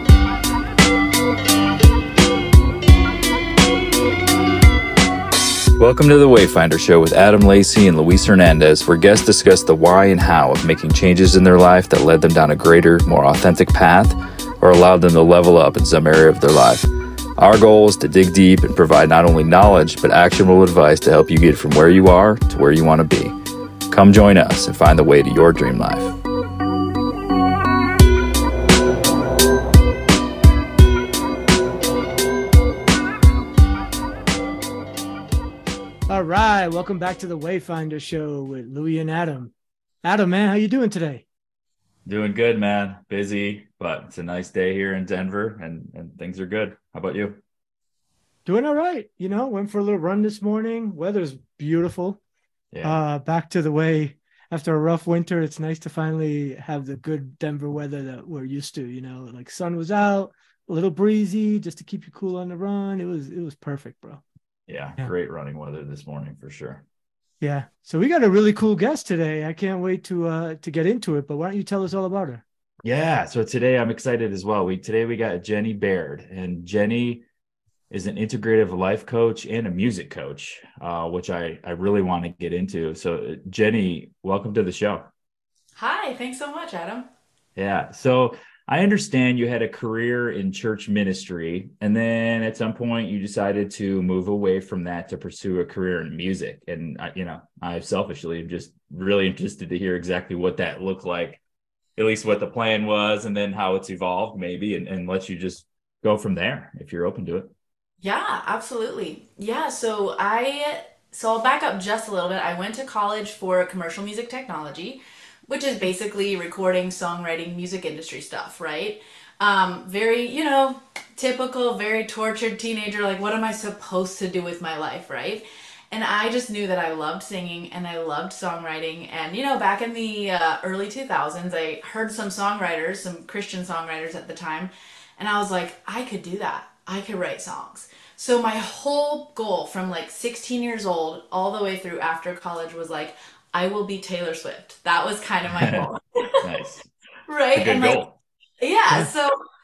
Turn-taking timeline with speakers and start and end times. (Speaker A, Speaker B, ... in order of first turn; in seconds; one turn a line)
Speaker A: 5.8-23.4
Speaker A: 23.9-26.2
Speaker B: 36.1-39.5
Speaker B: 40.0-41.2
Speaker A: 42.1-47.4
Speaker B: 48.5-52.2
Speaker A: 52.7-53.0
Speaker B: 52.8-64.2
Speaker A: 64.7-66.8
Speaker B: 67.4-72.4
Speaker A: 72.8-77.2
Speaker A: 77.9-85.1
Speaker C: 85.8-87.1
Speaker A: 87.6-101.4
Speaker A: 102.0-107.5
Speaker C: 108.0-146.4
Speaker A: 145.5-145.9
Speaker A: 146.4-146.9
Speaker C: 147.3-148.0
Speaker A: 147.5-148.2
Speaker C: 148.6-149.3